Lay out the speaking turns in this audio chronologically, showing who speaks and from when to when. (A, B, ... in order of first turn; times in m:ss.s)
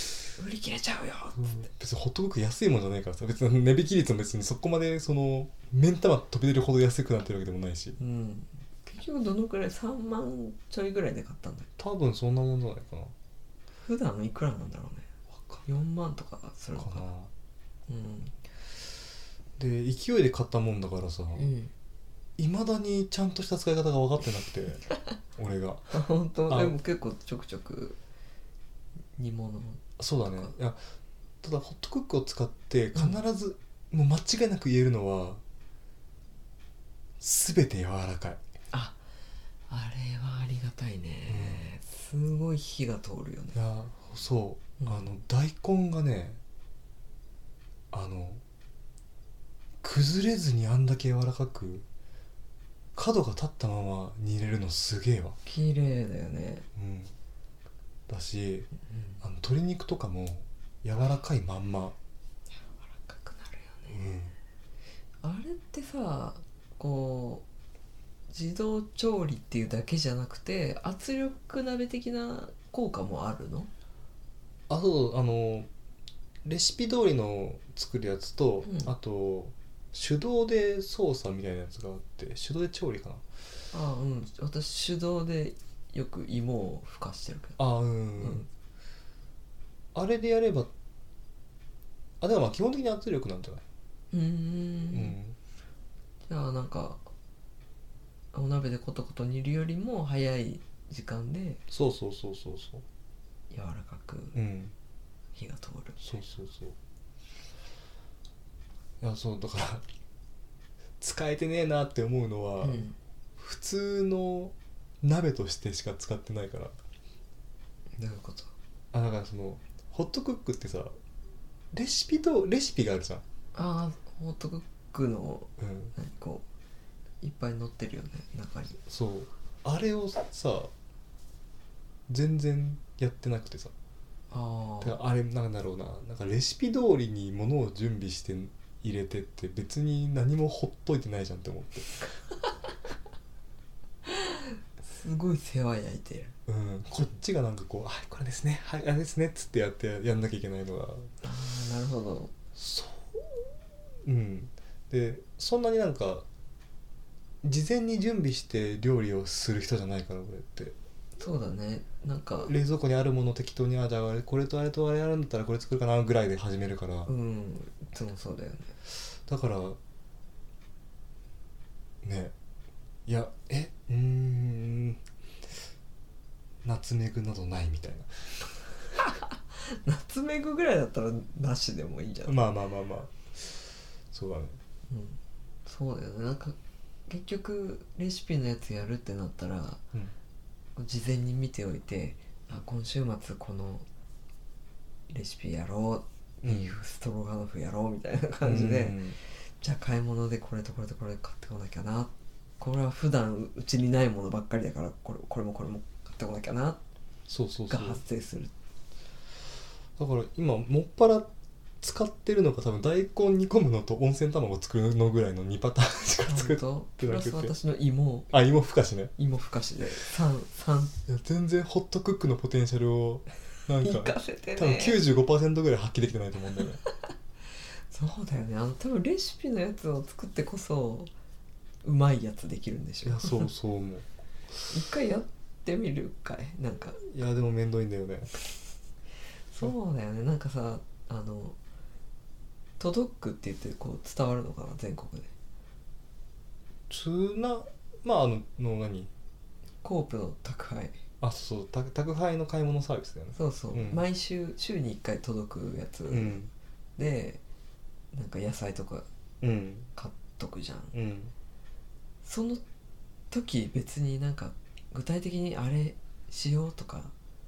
0:00.2-0:01.7 A
0:01.5-0:08.0 B
0:08.0-0:11.7 A
0:11.8-0:13.1 B
0:13.8-0:15.1 A
0:15.6-0:17.1 A
0:16.8-0:17.3 B
0:17.9-0:18.4 A
0:19.6-0:21.5 B
0:21.4-0:21.7 A
0:22.4-0:26.8 B
0:25.9-0:28.0 A
0:29.2-0:30.5 A
0:30.0-0:30.8 B
0:31.4-0:35.4 B
0:37.2-0:38.4 B
0:38.7-0:39.0 A
0:39.7-0:43.6 A
0:41.3-0:41.6 B
0:43.5-0:46.4 B
0:44.8-0:45.1 A
0:47.9-0:48.4 B
0:49.8-0:51.9 B
0:52.9-0:55.4 B
0:55.4-0:56.7 A
0:56.8-0:57.1 B
0:58.1-0:58.7 B
0:58.9-0:59.2 A
0:59.2-1:02.0 B
1:02.6-1:04.0 A
1:03.9-1:04.4 B
1:05.2-1:07.5 A
1:08.3-1:13.7 A
1:14.7-1:15.7 B
1:16.4-1:23.2 B
1:18.6-1:18.9 A
1:23.7-1:28.5 A
1:27.6-1:28.5 B
1:29.9-1:30.7 B
1:32.2-1:33.6 B
1:34.1-1:35.2 A
1:34.9-1:35.4 B
1:36.3-1:37.1 A
1:38.3-1:41.6 A
1:41.7-1:42.8 B
1:43.5-1:44.4 A
1:44.3-1:44.7 B
1:45.4-1:46.2 A
1:46.0-1:46.8 B
1:49.0-1:49.8 B
1:51.0-1:56.8 B
1:52.6-1:53.0 A
1:58.0-1:58.5 A
1:58.9-2:01.0 B
2:01.7-2:03.2 B
2:03.5-2:06.4 A
2:05.6-2:05.9 B
2:07.2-2:08.8 A
2:08.9-2:10.7 B
2:12.1-2:13.7 B
2:14.3-2:15.0 A
2:14.8-2:22.1 B
2:24.1-2:26.4 A
2:26.5-2:31.1 B
2:31.2-2:32.3 A
2:32.5-2:33.2 B
2:34.0-2:36.2 B
2:37.4-2:40.8 B
2:41.2-2:42.5 A
2:42.4-2:47.1 B
2:47.1-2:48.7 A
2:49.3-2:49.8 B
2:52.0-2:52.3 B
2:53.1-2:55.0 B
2:56.6-2:58.5 B
2:59.0-3:02.5 A
3:02.2-3:04.6 B
3:04.9-3:06.6 A
3:07.1-3:09.8 A
3:10.8-3:13.9 A
3:15.1-3:26.8 A
3:16.4-3:16.8 B
3:18.4-3:19.2 B
3:27.3-3:28.0 B
3:27.7-3:28.5 A
3:30.0-3:37.5 B
3:36.2-3:38.3 A
3:38.3-3:39.1 B
3:39.2-3:41.0 A
3:41.1-3:46.8 B
3:43.8-3:45.0 A
3:47.9-3:51.1 A
3:51.8-3:53.5 A
3:53.0-3:54.1 B
3:54.7-3:57.0 A
3:57.0-3:58.3 B
3:59.5-4:01.6 A
4:02.8-4:05.3 A
4:06.9-4:09.1 B
4:09.8-4:11.0 A
4:11.2-4:14.1 B
4:13.4-4:16.4 A
4:16.1-4:16.5 B
4:17.0-4:17.4 A
4:18.1-4:19.1 A
4:19.4-4:19.9 B
4:20.0-4:20.9 A
4:20.9-4:21.3 B
4:22.2-4:22.6 A
4:23.3-4:27.1 A